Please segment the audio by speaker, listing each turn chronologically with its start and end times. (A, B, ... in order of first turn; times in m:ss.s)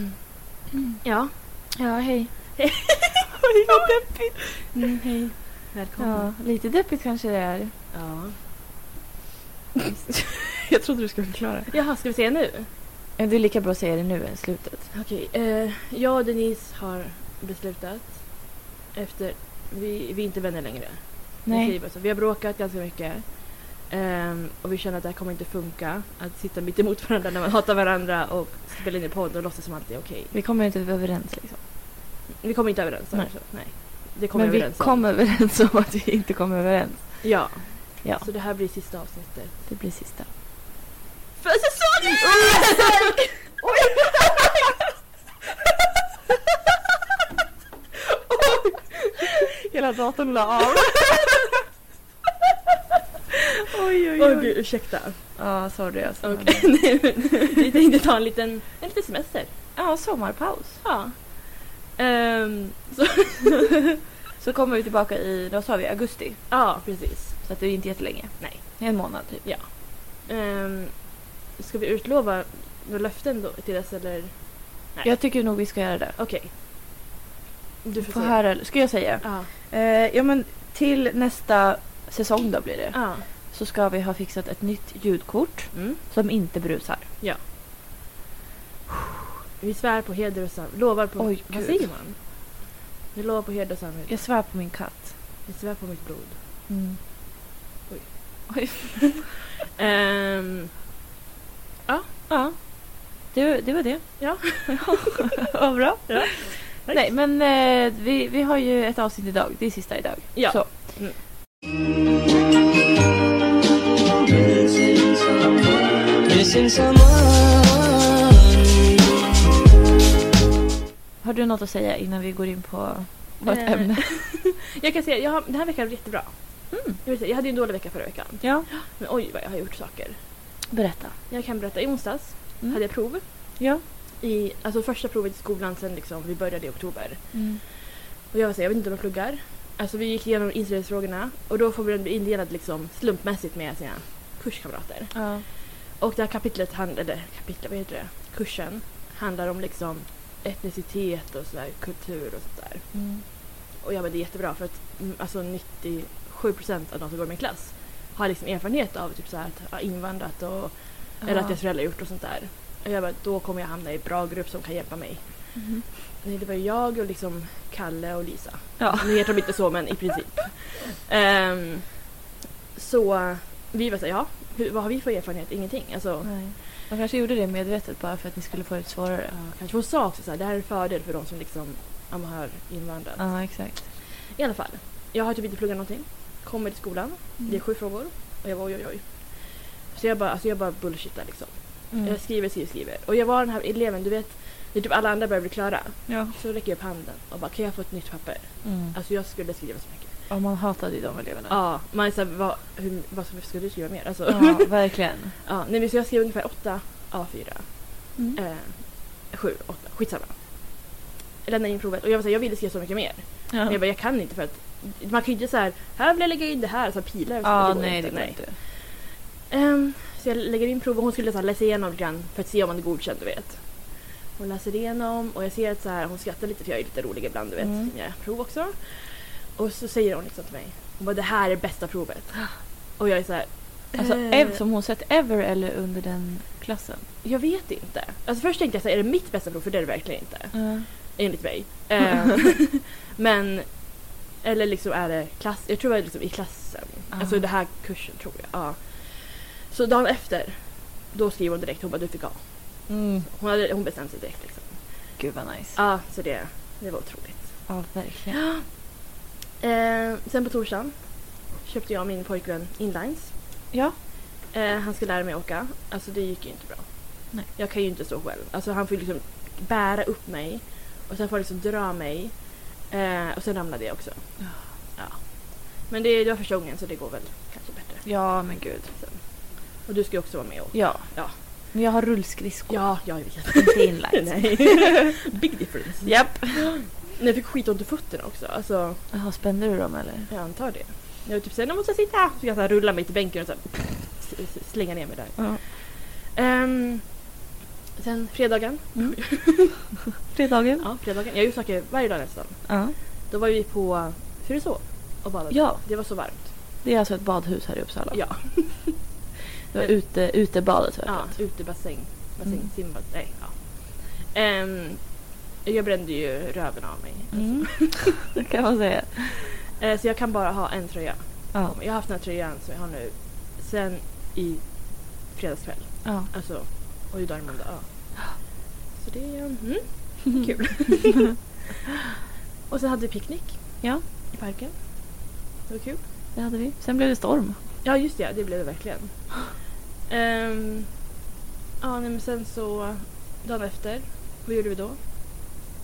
0:01.0-0:01.3 A
0:01.7-0:02.8 B
0:02.6-0:04.1 A
0:03.6-0:04.6 B
0:04.6-0:06.3 A
0:06.0-0:07.7 B
0:07.9-0:08.4 A
0:09.9-0:11.7 B
0:11.7-0:12.7 A
0:13.2-0:14.9 B
0:14.9-0:30.3 A
0:21.4-0:21.8 B
0:30.3-0:31.6 B
0:32.3-0:35.0 A
0:33.1-0:37.5 B
0:37.2-0:39.6 A
0:38.0-0:38.3 B
0:39.7-0:40.3 B
0:41.4-0:43.1 A
0:41.9-0:43.8 B
0:48.3-0:49.3 A
0:49.6-0:51.2 B
0:53.7-0:54.6 B
0:54.1-0:55.4 A
0:55.3-0:56.9 B
0:56.2-0:59.5 A
0:59.7-1:00.8 B
1:00.8-1:03.8 A
1:04.4-1:06.5 B
1:06.5-1:07.4 A
1:07.4-1:09.4 B
1:08.4-1:15.1 A
1:15.0-1:16.2 B
1:16.2-1:16.5 A
1:17.8-1:18.6 A
1:18.0-1:27.1 B
1:19.2-1:19.5 A
1:22.9-1:23.3 A
1:25.7-1:26.0 A
1:29.6-1:32.5 A
1:31.2-1:31.9 B
1:33.1-1:34.2 A
1:34.1-1:35.2 B
1:35.4-1:36.4 A
1:36.7-1:37.0 B
1:37.9-1:39.2 A
1:38.5-1:39.0 B
1:39.7-1:40.7 A
1:42.3-1:50.9 B
1:44.2-1:45.2 A
1:46.1-1:47.1 A
1:50.3-1:51.2 A
1:54.2-1:58.8 C
2:01.2-2:04.1 B
2:03.4-2:10.2 A
2:06.7-2:07.0 B
2:08.4-2:08.7 B
2:10.7-2:11.2 B
2:11.3-2:13.2 A
2:12.6-2:12.9 B
2:13.6-2:13.8 B
2:14.2-2:17.7 A
2:17.3-2:17.6 B
2:18.3-2:45.6 A
2:25.1-2:25.4 B
2:32.9-2:33.2 B
2:41.2-2:41.6 B
2:45.5-2:45.8 B
2:46.2-2:52.1 A
2:48.8-2:49.2 B
2:52.7-2:56.4 A
2:56.2-2:59.3 B
2:59.3-3:20.2 A
3:03.2-3:03.9 B
3:11.9-3:12.2 B
3:16.1-3:16.3 B
3:18.6-3:18.9 B
3:20.3-3:21.6 B
3:21.5-3:30.4 A
3:24.3-3:25.3 B
3:31.4-3:38.9 A
3:33.5-3:33.8 B
3:37.4-3:38.6 B
3:39.5-3:54.6 A
3:47.6-3:47.9 B
3:53.9-3:57.0 B
3:57.2-4:15.2 A
4:00.5-4:00.9 B
4:07.1-4:07.4 B
4:12.9-4:13.2 B
4:15.2-4:15.8 B
4:15.7-4:18.7 A
4:17.7-4:18.4 B
4:19.6-4:23.3 A
4:23.7-4:24.0 B
4:24.5-4:38.1 A
4:38.0-4:38.9 B
4:38.9-4:41.4 A
4:40.7-4:45.3 B
4:42.7-4:49.1 A
4:46.0-4:46.8 B
4:49.1-4:50.3 B
4:50.3-4:57.2 A
4:58.0-4:59.9 A
4:58.9-5:00.9 B
5:00.8-5:06.5 A
5:02.6-5:03.0 B
5:05.5-5:05.9 B
5:06.8-5:08.8 B
5:08.1-5:09.1 A
5:09.7-5:11.4 B
5:11.0-5:18.2 A
5:12.4-5:12.7 B
5:17.3-5:19.5 B
5:19.7-5:31.4 A
5:26.0-5:26.3 B
5:32.7-5:36.0 A
5:36.3-5:37.6 B
5:37.8-5:41.0 A
5:41.8-5:45.0 A